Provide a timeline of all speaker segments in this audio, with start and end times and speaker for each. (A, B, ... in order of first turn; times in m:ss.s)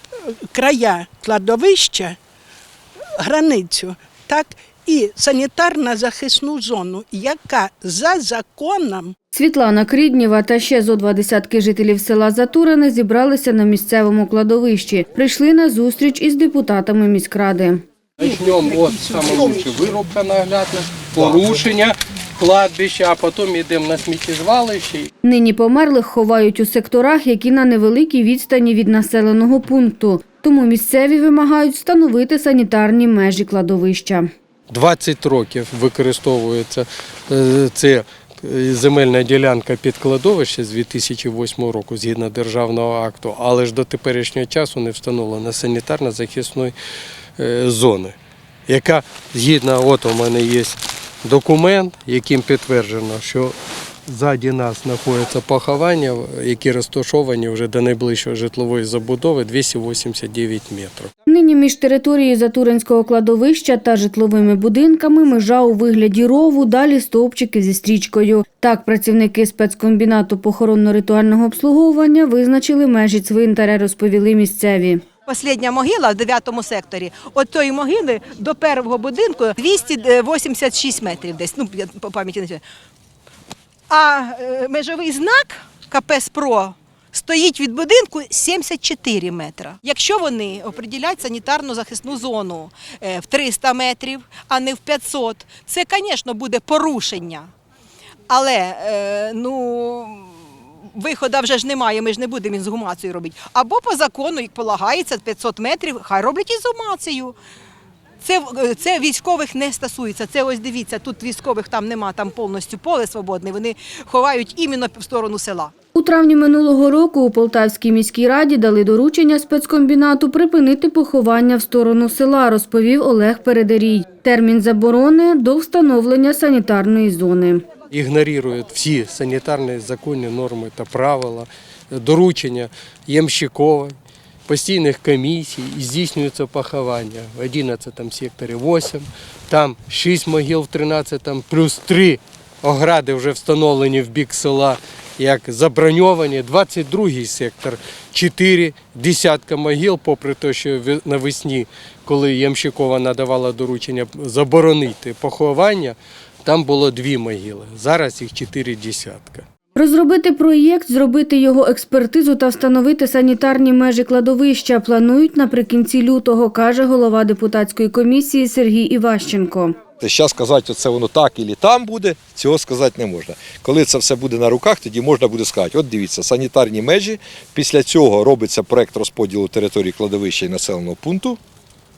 0:00.5-0:02.2 A
0:03.2-0:09.2 A
0:09.3-0:17.8 B
0:18.2-0:25.1 C
0:18.2-0:19.6 A
0:25.2-0:34.3 B
0:34.7-0:46.8 C
0:47.4-0:48.2 C
0:48.7-0:53.6 C
0:54.1-1:01.1 C
1:01.3-1:15.0 B
1:15.3-1:22.6 D
1:23.9-1:37.4 D
1:38.3-1:40.2 D
1:41.0-1:47.4 D
1:48.2-1:55.7 D
1:56.0-2:07.6 B
2:07.9-2:14.0 C
2:14.5-2:39.5 C
2:39.8-2:49.8 B
2:50.0-3:01.4 E